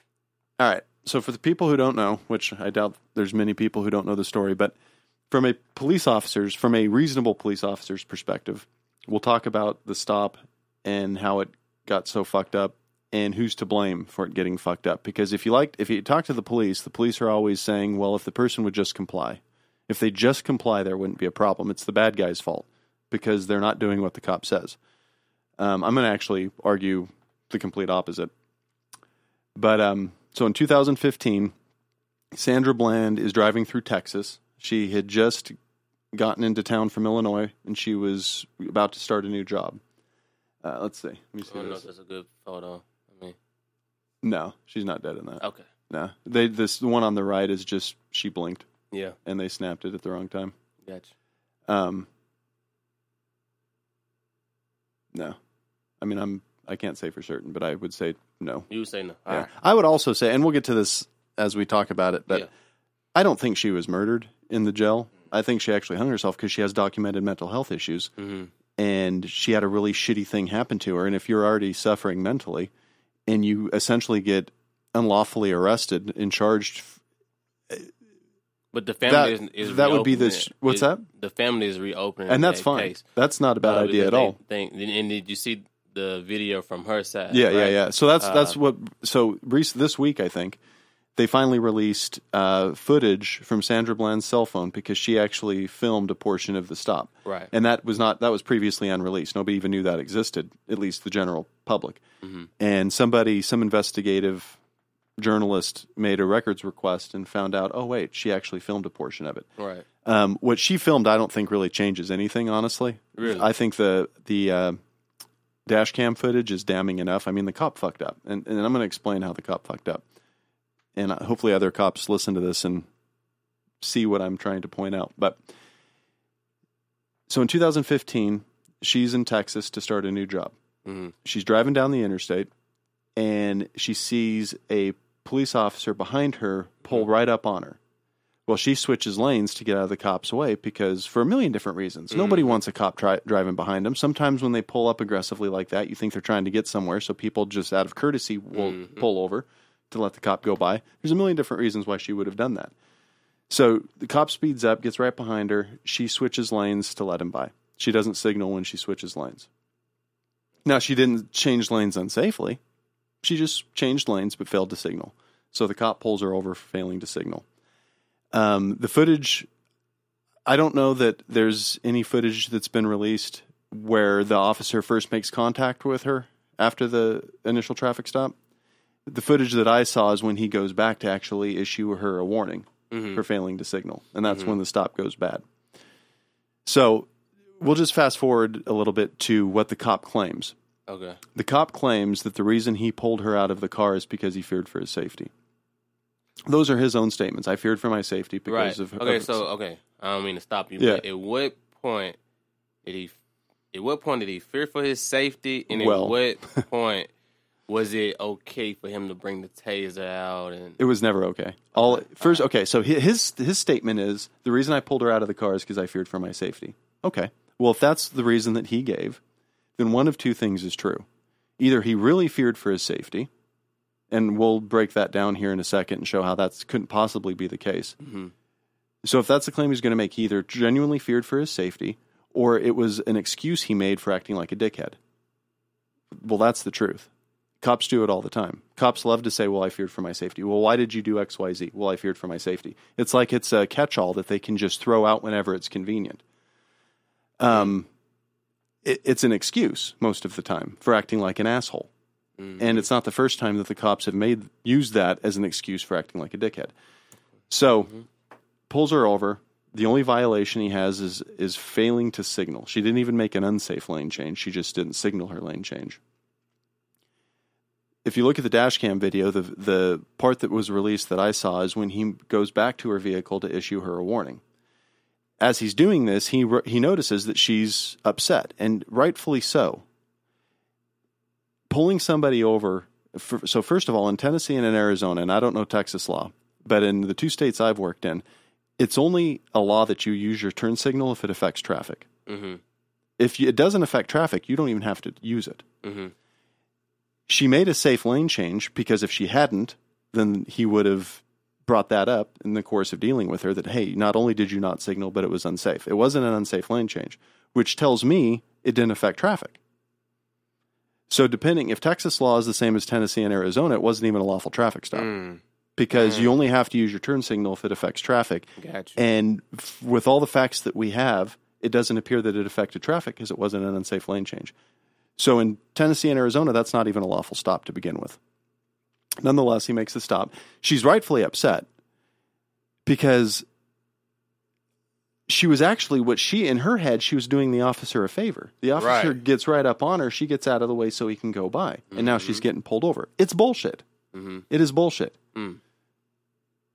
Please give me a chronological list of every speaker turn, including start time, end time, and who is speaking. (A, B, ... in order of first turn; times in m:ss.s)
0:00.6-0:04.7 A
0:05.3-0:24.8 A
0:25.6-0:28.3 A
0:29.6-0:31.5 A
0:32.3-0:35.6 A
0:36.1-0:39.8 A
0:40.6-0:41.8 A
0:41.5-0:43.4 B
0:44.2-0:48.7 A
0:48.9-0:49.2 B
0:49.2-0:50.5 A
0:51.7-0:52.1 A
0:56.0-0:58.7 A
0:58.7-0:59.5 B
0:59.3-1:02.5 A
1:03.2-1:08.1 A
1:08.2-1:08.5 B
1:08.8-1:12.7 A
1:13.3-1:17.0 A
1:18.7-1:23.0 B
1:19.1-1:21.0 A
1:22.3-1:24.4 A
1:23.6-1:28.6 B
1:27.3-1:30.6 A
1:31.2-1:42.0 A
1:37.2-1:37.5 B
1:42.2-1:42.5 B
1:42.6-1:44.6 A
1:45.2-1:49.5 A
1:49.6-1:49.9 B
1:50.0-1:54.8 A
1:53.2-1:53.5 B
1:55.7-2:00.0 A
2:01.0-2:02.9 A
2:03.8-2:05.4 A
2:07.3-2:10.6 A
2:10.8-2:11.1 B
2:11.2-2:12.5 A
2:13.2-2:17.8 A
2:18.5-2:32.7 A
2:22.1-2:22.6 B
2:28.5-2:29.0 B
2:33.5-2:39.5 A
2:40.6-2:42.6 A
2:43.2-2:47.4 A
2:48.3-2:49.5 A
2:50.5-2:58.4 A
2:59.1-3:05.4 A
3:02.9-3:03.2 B
3:04.3-3:04.6 B
3:06.6-3:07.1 A
3:07.6-3:10.5 A
3:10.9-3:11.2 B
3:11.4-3:15.3 A
3:16.5-3:19.4 A
3:18.5-3:22.2 B
3:20.8-3:21.0 A
3:22.8-3:23.2 B
3:23.7-3:27.1 B
3:25.7-3:26.6 A
3:27.7-3:30.8 B
3:30.8-3:39.2 A
3:31.8-3:32.4 B
3:39.8-3:41.1 A
3:41.6-3:43.3 A
3:44.1-3:48.0 A
3:48.0-3:48.3 B
3:49.0-3:55.0 A
3:56.1-3:57.1 A
3:57.6-4:06.2 A
4:07.4-4:07.9 A
4:08.8-4:11.9 A
4:12.4-4:12.9 B
4:12.6-4:16.7 A
4:17.5-4:17.9 A
4:18.7-4:26.0 A
4:28.0-4:34.4 A
4:35.4-4:39.8 A
4:41.7-4:48.2 A
4:48.8-4:52.1 A
4:52.3-4:52.6 B
4:53.2-4:55.6 A
4:55.8-4:56.1 B
4:57.3-5:09.6 A
5:11.1-5:15.1 A
5:14.9-5:15.4 B
5:15.8-5:24.5 A
5:15.9-5:16.3 B
5:18.6-5:19.0 B
5:25.2-5:28.2 A
5:29.2-5:31.7 A
5:32.9-5:33.5 A
5:35.3-5:43.8 A
5:38.8-5:39.2 B
5:41.9-5:42.4 B
5:44.1-5:44.4 B
5:44.5-5:45.2 A